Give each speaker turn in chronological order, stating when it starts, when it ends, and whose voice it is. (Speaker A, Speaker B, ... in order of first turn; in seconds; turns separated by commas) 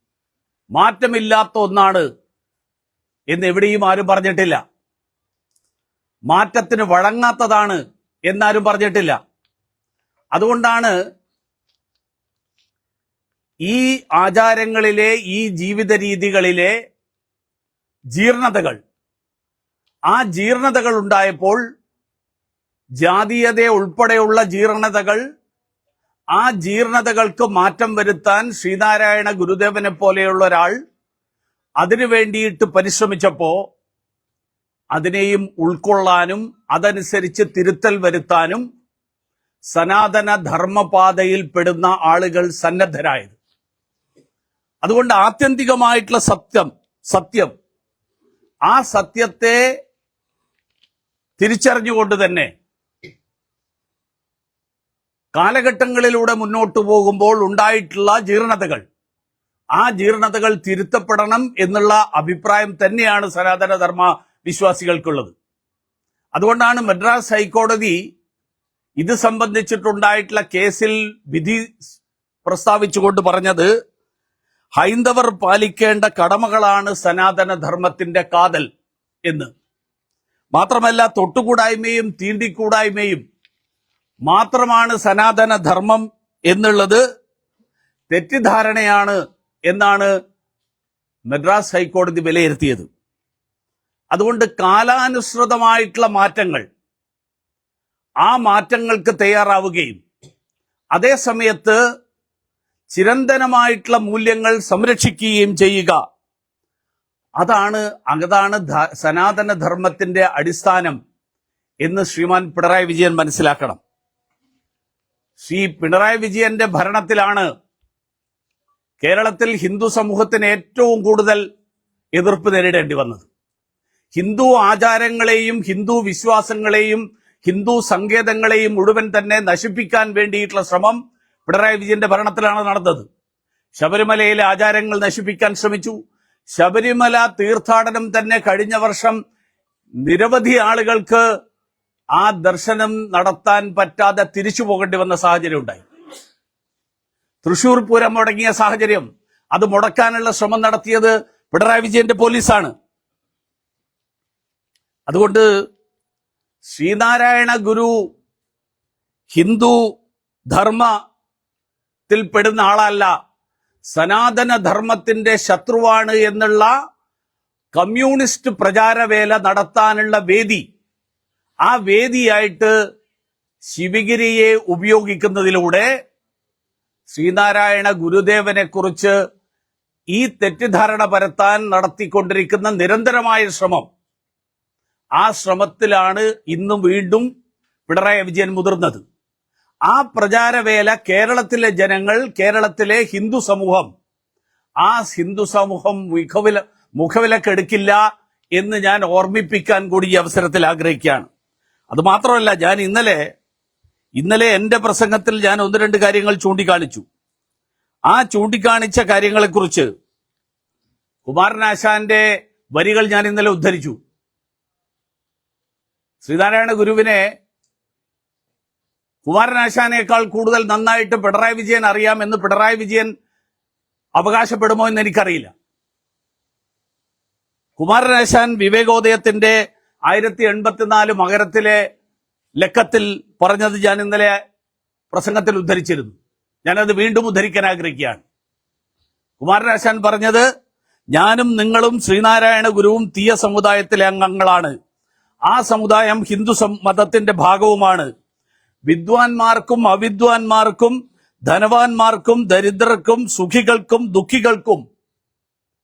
Speaker A: 0.8-2.0, Speaker A: 3.3-4.6, Speaker A: 6.3-9.2, Speaker A: 10.4-10.9, Speaker A: 13.7-16.7, Speaker A: 18.1-18.8, Speaker A: 20.1-21.6, Speaker A: 23.0-25.2, Speaker A: 26.3-30.8, Speaker A: 31.8-33.6, Speaker A: 34.9-38.6, Speaker A: 39.7-43.4, Speaker A: 44.8-47.5, Speaker A: 48.7-49.6, Speaker A: 51.4-52.5, Speaker A: 55.4-58.8, Speaker A: 59.8-65.3, Speaker A: 66.4-68.0, Speaker A: 69.0-73.7, Speaker A: 74.8-78.7, Speaker A: 80.5-83.2, Speaker A: 84.3-87.0, Speaker A: 88.1-90.1, Speaker A: 91.3-92.9, Speaker A: 94.1-96.7, Speaker A: 98.2-100.0, Speaker A: 101.0-101.8, Speaker A: 102.9-106.0, Speaker A: 107.4-111.0, Speaker A: 111.8-113.8, Speaker A: 115.4-117.5, Speaker A: 119.0-121.4, Speaker A: 122.2-123.3, Speaker A: 124.2-133.1, Speaker A: 133.8-135.9, Speaker A: 136.6-139.2, Speaker A: 140.0-141.2, Speaker A: 142.2-145.8, Speaker A: 147.4-152.7, Speaker A: 155.1-155.4, Speaker A: 156.7-157.9, Speaker A: 159.3-159.8, Speaker A: 160.5-160.9, Speaker A: 162.1-163.1, Speaker A: 163.9-166.7, Speaker A: 167.7-170.6, Speaker A: 171.7-172.7, Speaker A: 173.7-175.9, Speaker A: 177.1-179.2, Speaker A: 180.1-183.9, Speaker A: 185.2-187.3, Speaker A: 187.9-189.0, Speaker A: 189.9-193.9, Speaker A: 194.8-198.0, Speaker A: 198.6-201.3, Speaker A: 201.9-203.2, Speaker A: 204.2-207.1, Speaker A: 208.1-209.9, Speaker A: 211.3-214.0, Speaker A: 216.2-217.2, Speaker A: 219.2-223.1, Speaker A: 224.2-225.5, Speaker A: 227.8-229.6, Speaker A: 230.1-231.8, Speaker A: 232.6-234.3, Speaker A: 235.1-238.2, Speaker A: 239.4-240.4, Speaker A: 241.1-244.7, Speaker A: 245.5-248.1, Speaker A: 248.9-251.0, Speaker A: 251.5-254.8